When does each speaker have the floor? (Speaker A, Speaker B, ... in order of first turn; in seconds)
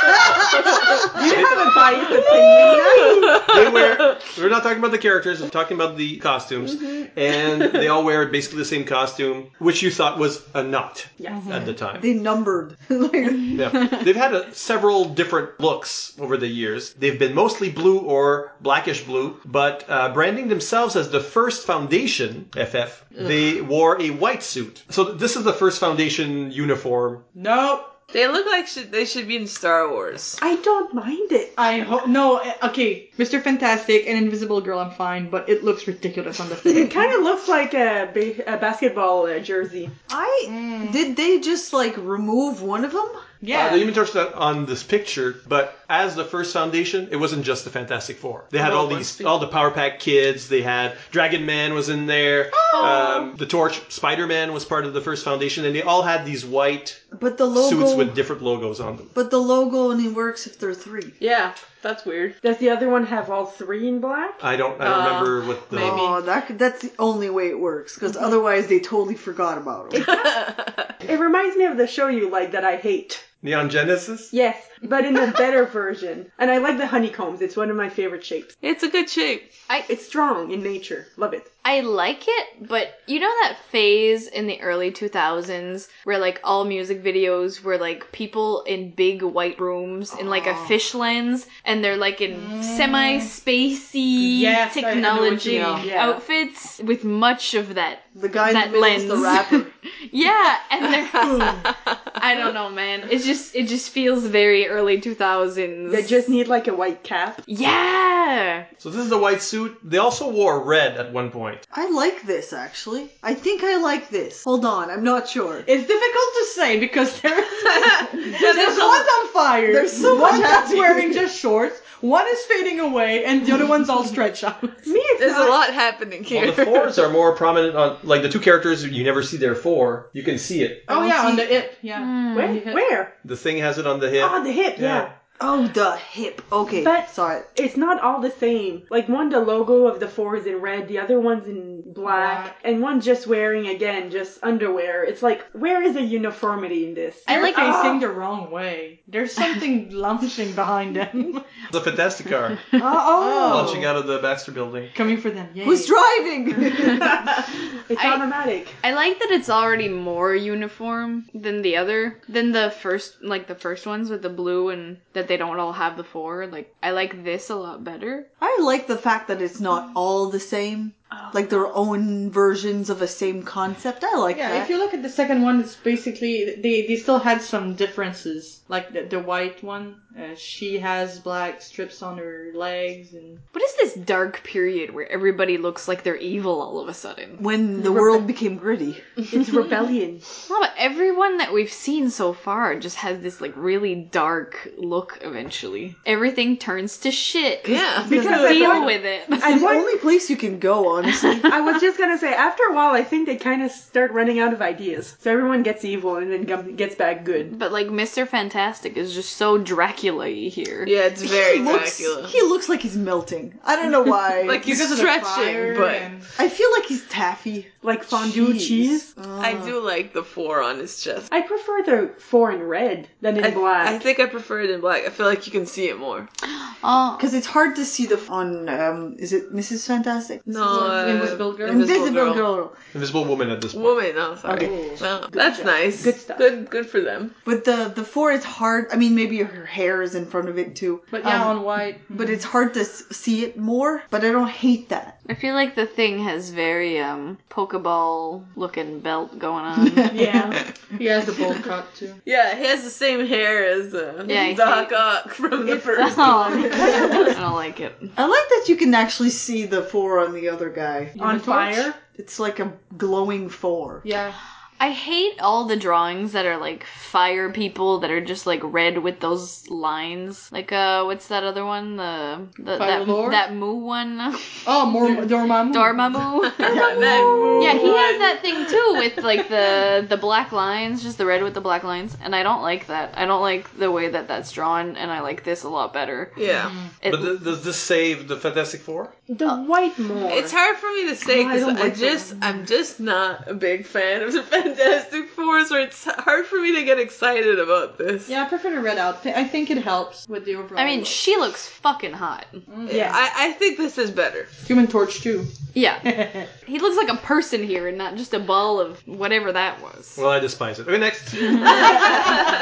Speaker A: 0.4-1.2, 2.2-4.2, 28.1-30.4, 61.2-62.4, 64.8-66.2, 70.0-70.9, 78.6-79.5, 118.1-119.1, 125.2-127.0, 197.6-198.9, 210.8-212.3, 214.4-216.1, 219.4-221.3, 223.4-226.3, 230.5-232.5, 233.7-237.3, 252.2-257.1, 276.5-278.4, 286.4-286.7, 290.2-298.3, 302.9-304.5
Speaker B: 1.1-3.5, 11.2-11.6, 30.4-31.6, 36.8-39.9, 62.4-64.4, 69.9-73.2, 74.3-78.5, 79.9-81.5, 95.8-96.2, 105.9-107.4, 124.8-125.6, 130.9-131.5, 132.3-133.1, 134.2-135.1, 136.7-148.0, 157.0-158.8, 187.8-188.2, 189.3-190.2, 198.1-199.9, 201.4-207.5, 217.8-219.1, 221.3-224.0, 235.3-236.5, 250.1-250.6, 256.9-257.2, 261.2-261.9, 289.3-290.6, 291.2-292.2
Speaker C: 1.2-2.2, 3.2-12.1, 13.5-27.2, 43.5-59.1, 64.4-66.1, 73.4-74.3, 108.8-111.6, 126.3-130.9, 133.2-135.1, 151.7-154.9, 232.9-234.0, 287.1-289.1, 310.2-312.4
Speaker D: 2.5-3.4, 11.9-13.8, 40.1-43.3, 57.1-58.1, 59.1-61.1, 65.7-70.1, 90.1-90.8, 95.5-95.8, 98.1-99.7, 111.7-115.7, 119.6-121.2, 135.4-137.5, 153.1-153.9, 155.6-157.2, 168.4-174.7, 187.4-189.0, 199.4-201.5, 211.2-214.8, 216.4-219.8, 227.2-232.8, 234.4-234.7, 237.4-245.1, 258.1-261.2, 262.1-264.0, 276.6-277.9
Speaker E: 11.3-11.7, 27.3-27.9, 31.6-37.0, 40.4-41.0, 43.4-43.9, 48.6-49.3, 92.3-93.3, 94.2-95.9, 101.3-101.6, 115.6-124.8, 130.9-132.9, 142.0-142.6, 147.3-151.4, 152.8-153.9, 154.9-156.0, 174.3-183.4, 214.6-216.2, 230.7-232.0, 234.6-235.0, 241.1-242.4, 250.1-252.2, 261.2-261.9, 264.0-264.4, 272.7-273.4, 274.6-276.2, 286.6-286.9, 298.3-301.2, 302.7-303.1, 304.6-305.5, 306.1-306.5
Speaker F: 81.6-106.3, 107.5-108.7, 131.9-132.6, 157.9-158.2, 158.8-168.3, 183.5-187.4, 190.5-199.6, 207.5-210.9, 226.8-227.3, 245.3-250.2, 254.2-255.0, 255.9-258.1, 264.8-274.5, 275.7-276.8, 277.6-286.4, 287.0-287.4, 300.8-302.6, 305.7-306.1, 306.6-310.2